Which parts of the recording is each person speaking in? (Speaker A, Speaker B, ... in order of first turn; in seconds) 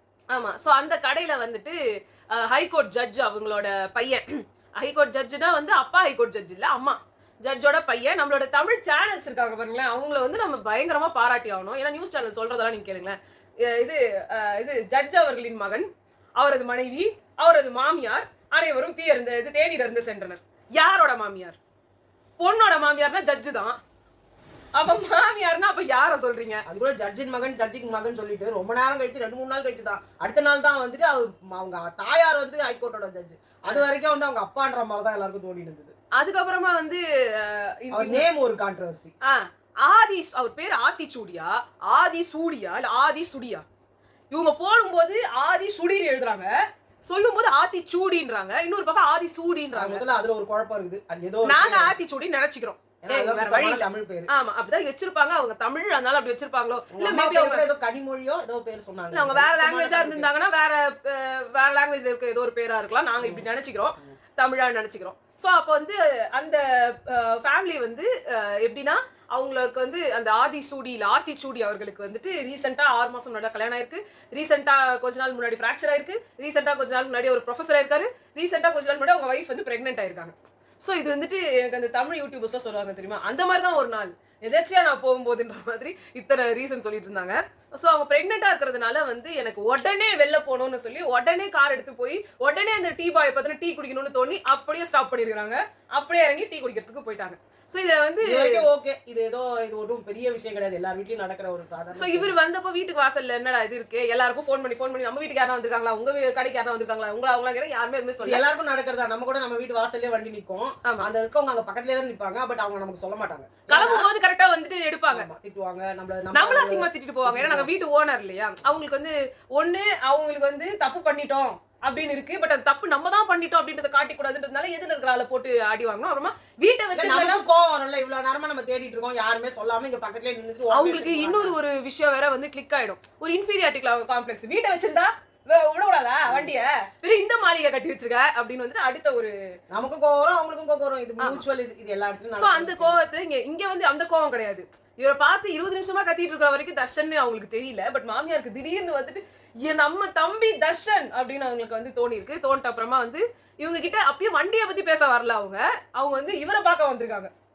Speaker A: 0.3-21.6, 22.4-23.8, 24.8-26.6, 36.1-38.3, 39.2-43.6, 44.3-46.5, 47.1-50.0, 51.5-57.6, 59.1-98.7, 101.9-108.4, 113.7-115.3, 116.3-127.4, 130.7-139.3, 142.3-157.3
Speaker B: 26.7-35.9, 37.9-39.1, 49.7-52.0, 53.0-54.3, 56.9-60.3, 63.2-63.5, 98.2-102.3, 108.2-114.1, 115.1-117.7, 126.9-131.6, 139.7-143.0